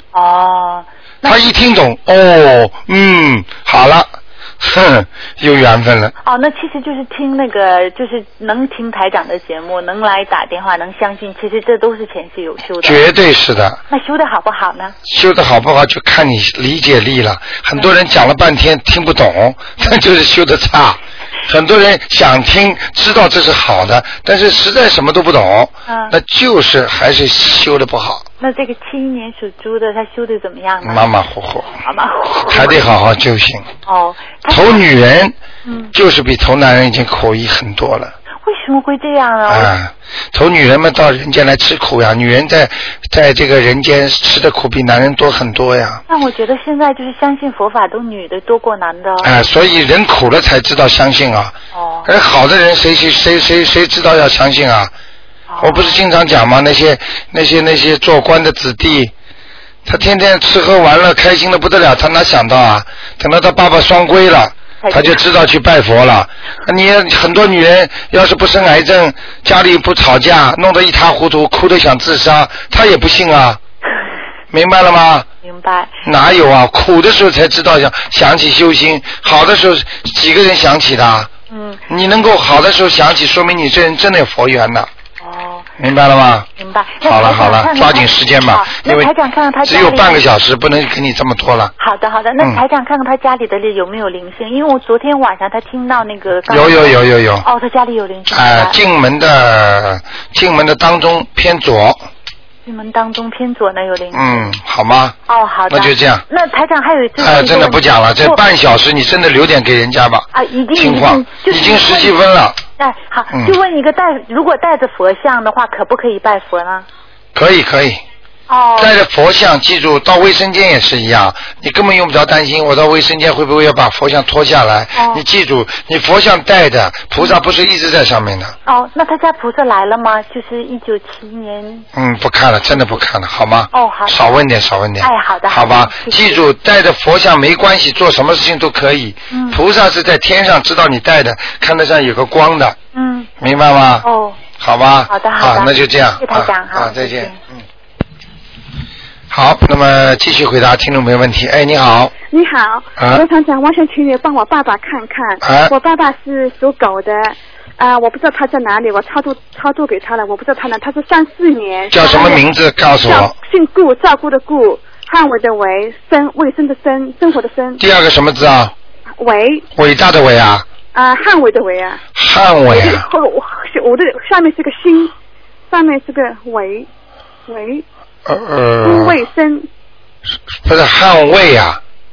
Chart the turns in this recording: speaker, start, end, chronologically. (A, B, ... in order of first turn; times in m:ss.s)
0:00.1-0:01.5 A
0:01.2-0:06.1 B
0:06.2-0:13.0 A
0:12.8-0:13.8 B
0:13.9-0:15.0 A
0:15.0-0:28.2 B
0:25.9-0:26.1 A
0:28.4-0:31.1 A
0:30.8-0:31.8 B
0:31.8-0:32.9 A
0:32.5-0:33.7 B
0:33.9-0:34.9 A
0:34.5-0:35.4 B
0:35.6-0:35.9 A
0:35.9-0:38.1 B
0:38.4-0:39.7 A
0:39.5-0:46.0 B
0:46.1-0:49.3 A
0:49.2-0:54.9 B
0:51.7-0:52.1 A
0:55.5-0:56.0 A
0:55.6-0:59.1 B
0:59.8-1:13.6 B
1:04.8-1:05.2 A
1:14.5-1:15.3 B
1:15.4-1:16.0 A
1:16.0-1:21.3 B
1:21.5-1:21.8 A
1:21.9-1:24.9 B
1:25.2-1:25.7 A
1:25.8-1:26.5 B
1:26.6-1:30.2 A
1:27.0-1:29.1 B
1:29.6-1:31.7 B
1:31.8-1:38.8 A
1:36.5-1:37.4 B
1:38.3-1:42.0 B
1:42.6-1:44.6 A
1:44.1-1:45.1 B
1:45.3-1:48.4 A
1:45.7-1:46.2 B
1:47.2-1:52.6 B
1:50.3-1:52.2 A
1:52.8-1:56.9 A
1:53.3-1:53.6 B
1:57.3-1:58.0 B
1:58.5-1:59.0 A
1:58.8-2:08.6 B
2:05.0-2:05.2 A
2:08.6-2:11.9 A
2:11.9-2:22.8 B
2:13.7-2:14.2 A
2:15.0-2:16.4 A
2:19.3-2:19.6 A
2:22.9-2:23.3 A
2:23.4-2:24.0 B
2:24.0-2:24.4 A
2:24.6-2:27.6 B
2:25.1-2:27.4 A
2:29.3-2:32.1 B
2:32.3-2:42.4 C
2:33.0-2:33.2 B
2:35.4-2:35.7 B
2:41.9-2:43.3 B
2:43.0-2:47.8 C
2:47.8-2:48.7 B
2:49.2-2:49.6 C
2:49.7-2:50.6 B
2:50.9-2:52.0 C
2:52.1-2:53.0 B
2:52.7-2:55.1 C
2:55.7-2:56.9 C
2:57.5-2:57.8 C
2:58.2-2:59.2 B
2:58.8-2:59.7 C
3:00.6-3:01.8 B